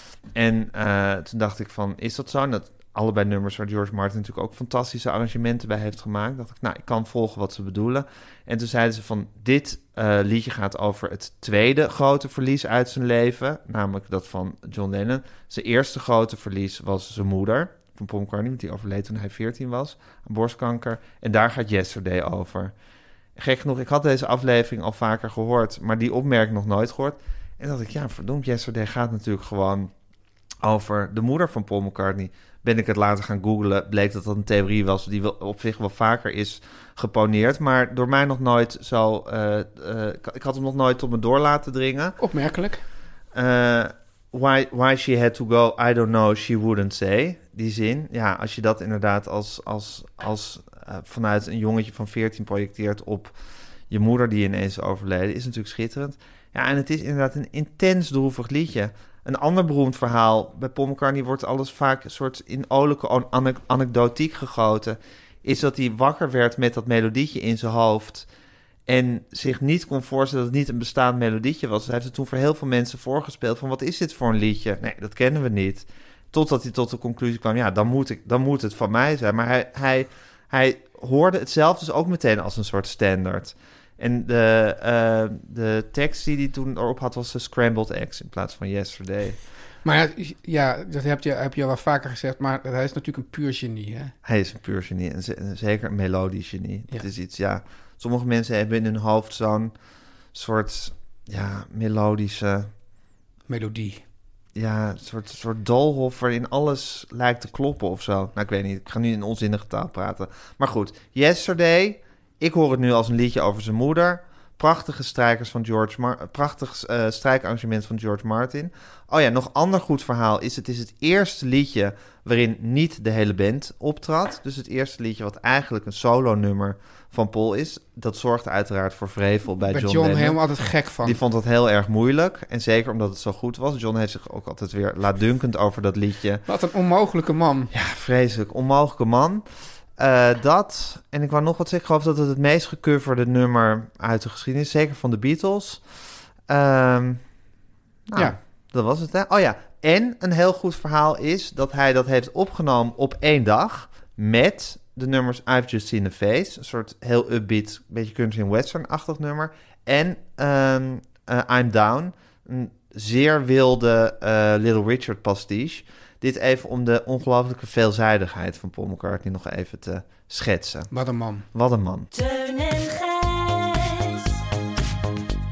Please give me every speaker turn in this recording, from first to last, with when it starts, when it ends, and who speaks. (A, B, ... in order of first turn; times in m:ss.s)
0:00.3-0:22.7 A
0:23.4-0:29.9 A
0:30.6-0:42.2 A
0:42.2-0:42.8 B
0:43.3-0:53.3 A
0:53.9-1:08.3 A
1:08.9-1:29.4 A
1:29.8-1:34.1 B
1:34.2-1:39.7 A
1:40.3-1:42.7 A
1:43.5-1:44.0 B
1:44.6-2:10.4 A
2:09.7-2:11.2 B
2:11.0-2:16.4 A
2:16.5-2:17.7 B
2:17.7-2:19.4 A
2:20.0-2:25.8 A
2:26.5-2:27.2 A
2:28.1-2:50.9 A
2:50.9-2:51.4 B
2:51.5-2:52.1 A
2:52.1-2:54.4 C